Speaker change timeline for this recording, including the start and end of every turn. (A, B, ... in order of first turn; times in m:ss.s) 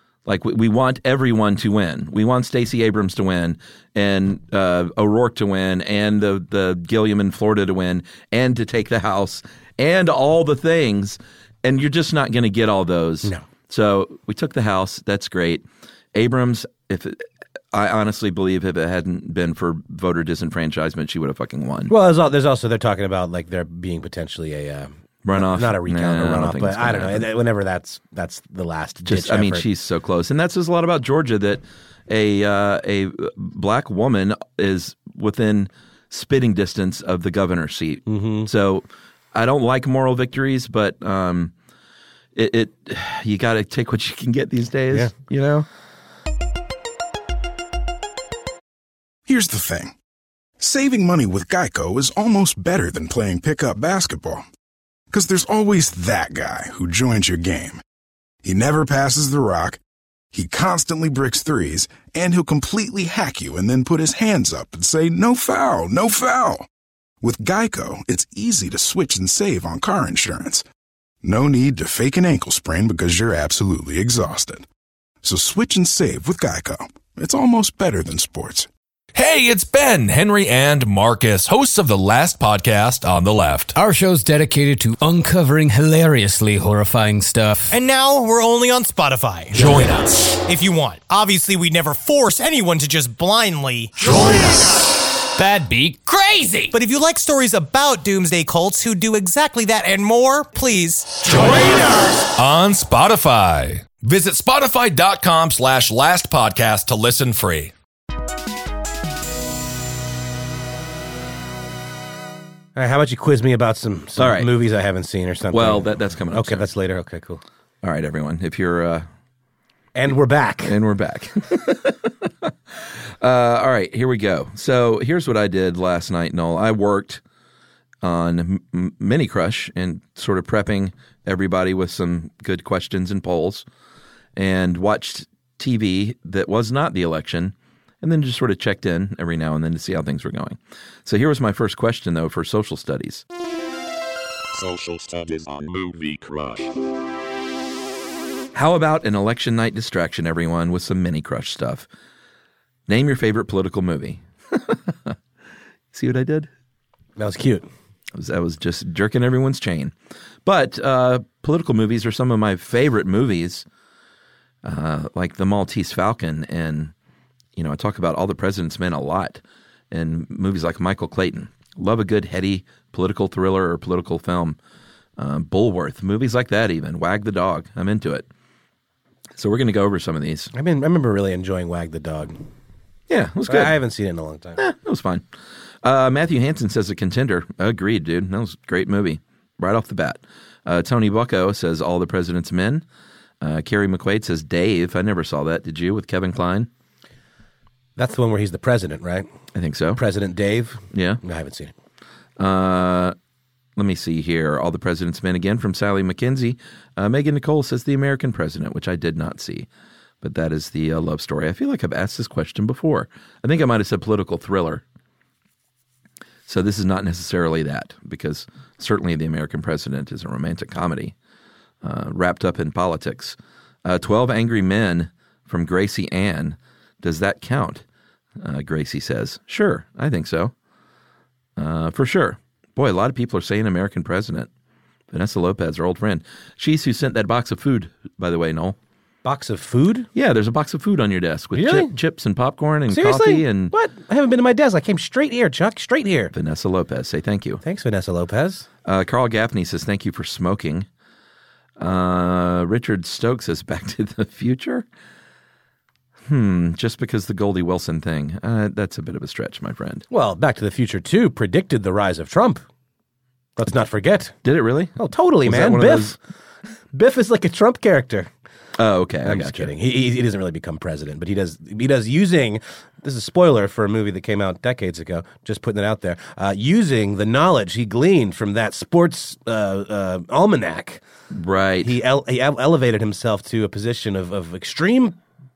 0:00.2-0:21.9 A
0:21.9-0:29.6 B
0:25.2-0:27.3 A
0:29.1-0:41.5 A
0:38.1-0:38.5 B
0:42.3-0:45.6 A
0:49.3-0:49.9 C
0:50.6-0:54.4 C
0:55.1-0:57.8 C
0:58.4-0:59.8 C
1:00.3-1:06.7 C
1:07.2-1:10.6 C
1:11.2-1:14.6 C
1:15.2-1:18.7 C
1:19.1-1:23.7 D
1:23.8-1:27.8 E
1:27.7-1:34.8 F
1:29.6-1:29.9 E
1:29.6-1:30.1 D
1:35.4-1:36.1 E
1:36.0-1:41.3 F
1:41.2-1:47.7 D
1:52.8-1:57.4 B
1:54.2-1:54.5 A
1:55.5-1:56.6 A
1:57.8-1:59.1 A
1:59.9-2:00.7 B
2:00.6-2:07.2 A
2:08.0-2:13.6 A
2:14.4-2:23.2 A
2:24.6-2:26.7 G
2:28.5-2:31.9 A
2:32.9-2:35.2 A
2:35.9-2:36.5 A
2:37.2-2:37.7 B
2:38.1-2:39.9 A
2:40.4-2:43.6 A
2:44.6-2:46.9 A
2:47.6-2:54.6 A
2:55.2-2:58.2 A
2:59.4-3:00.5 A
3:00.5-3:02.4 B
3:03.1-3:03.8 A
3:03.5-3:04.6 B
3:04.6-3:05.2 A
3:05.8-3:12.8 A
3:13.4-3:16.7 A
3:18.0-3:19.3 B
3:19.5-3:20.0 A
3:19.9-3:21.7 B
3:20.9-3:21.2 A
3:22.4-3:23.1 A
3:23.8-3:29.7 A
3:30.2-3:34.8 A
3:36.5-3:41.1 A
3:41.8-3:47.8 A
3:48.4-3:50.5 A
3:51.6-3:54.5 A
3:55.1-3:58.8 A
3:59.2-4:00.1 B
4:00.1-4:03.7 A
4:01.5-4:01.9 B
4:02.9-4:06.3 B
4:06.3-4:07.6 A
4:07.6-4:08.7 B
4:08.8-4:10.8 A
4:11.8-4:14.8 A
4:16.2-4:20.0 A
4:20.1-4:22.6 B
4:23.6-4:24.3 B
4:24.4-4:26.2 A
4:25.0-4:26.2 B
4:26.9-4:28.3 B
4:28.8-4:29.7 A
4:29.2-4:41.0 B
4:41.3-4:41.9 A
4:41.8-4:45.2 B